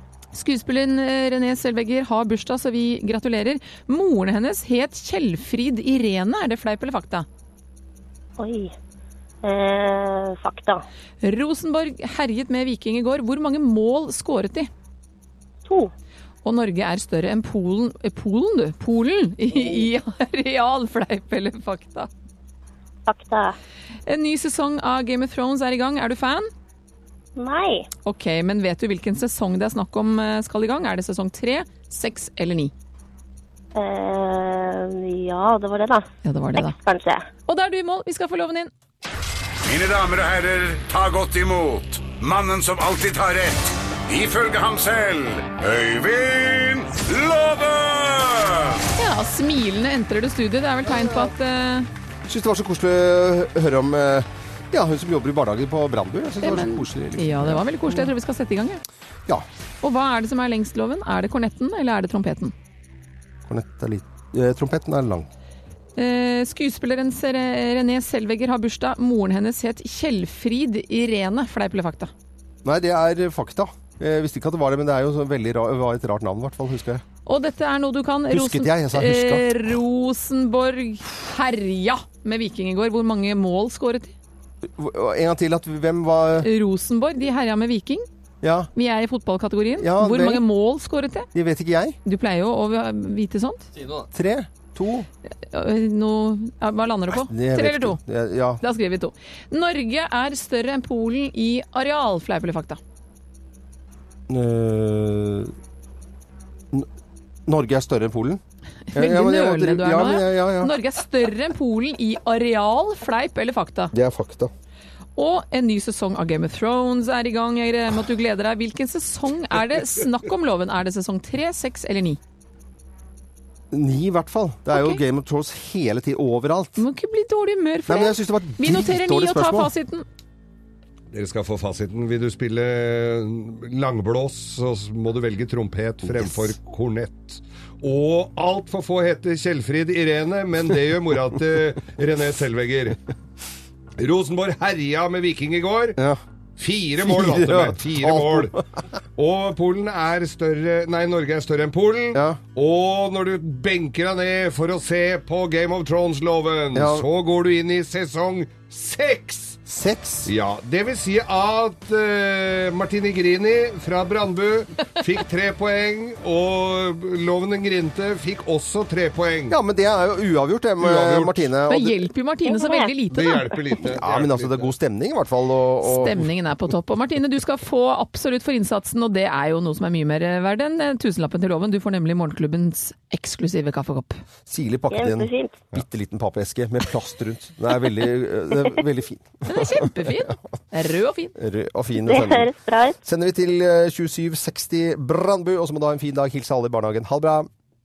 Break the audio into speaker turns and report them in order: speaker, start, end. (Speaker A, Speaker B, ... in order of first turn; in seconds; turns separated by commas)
Speaker A: 0.3-7.2, Speaker B: 8.4-8.7, Speaker B: 9.4-10.8, Speaker A: 11.2-14.7, Speaker B: 15.7-15.9, Speaker A: 16.4-22.1, Speaker B: 23.1-23.5, Speaker A: 24.1-26.5, Speaker B: 27.4-27.9, Speaker A: 28.0-32.7, Speaker B: 33.7-37.3, Speaker A: 36.2-36.8, Speaker A: 37.5-38.7, Speaker C: 39.6-48.7, Speaker A: 48.9-51.9, Speaker D: 50.9-51.3, Speaker D: 52.3-58.1, Speaker A: 56.4-58.8, Speaker A: 59.8-62.5, Speaker D: 63.5-65.3, Speaker A: 66.0-72.1, Speaker D: 72.6-77.0, Speaker A: 77.2-84.1, Speaker D: 78.3-79.5, Speaker D: 84.6-86.5, Speaker A: 86.4-88.0, Speaker D: 88.4-88.7, Speaker A: 88.7-91.3, Speaker D: 89.8-90.4, Speaker D: 91.3-92.0, Speaker A: 92.0-93.6, Speaker D: 94.0-95.1, Speaker A: 95.4-98.0, Speaker D: 97.1-98.6, Speaker A: 98.6-102.8, Speaker D: 104.3-105.5, Speaker D: 107.5-108.4, Speaker A: 108.9-113.9, Speaker D: 108.9-110.7, Speaker D: 113.9-114.5, Speaker A: 115.2-122.2, Speaker D: 123.7-126.8, Speaker A: 124.7-125.0, Speaker A: 126.8-130.0, Speaker D: 127.9-129.7, Speaker E: 131.1-143.0, Speaker E: 144.0-146.0, Speaker E: 146.6-148.6, Speaker D: 147.0-148.6, Speaker E: 149.2-159.6, Speaker D: 152.1-152.4, Speaker D: 156.7-157.1, Speaker D: 159.7-160.3, Speaker E: 160.2-169.6, Speaker D: 169.5-172.1, Speaker E: 170.8-171.5, Speaker A: 171.7-173.6, Speaker B: 172.4-172.9, Speaker E: 173.1-174.7, Speaker D: 173.8-176.2, Speaker A: 175.8-184.2, Speaker D: 184.5-190.2, Speaker B: 184.9-185.6, Speaker A: 189.5-191.3, Speaker D: 191.3-192.5, Speaker B: 192.0-193.0, Speaker D: 193.0-197.5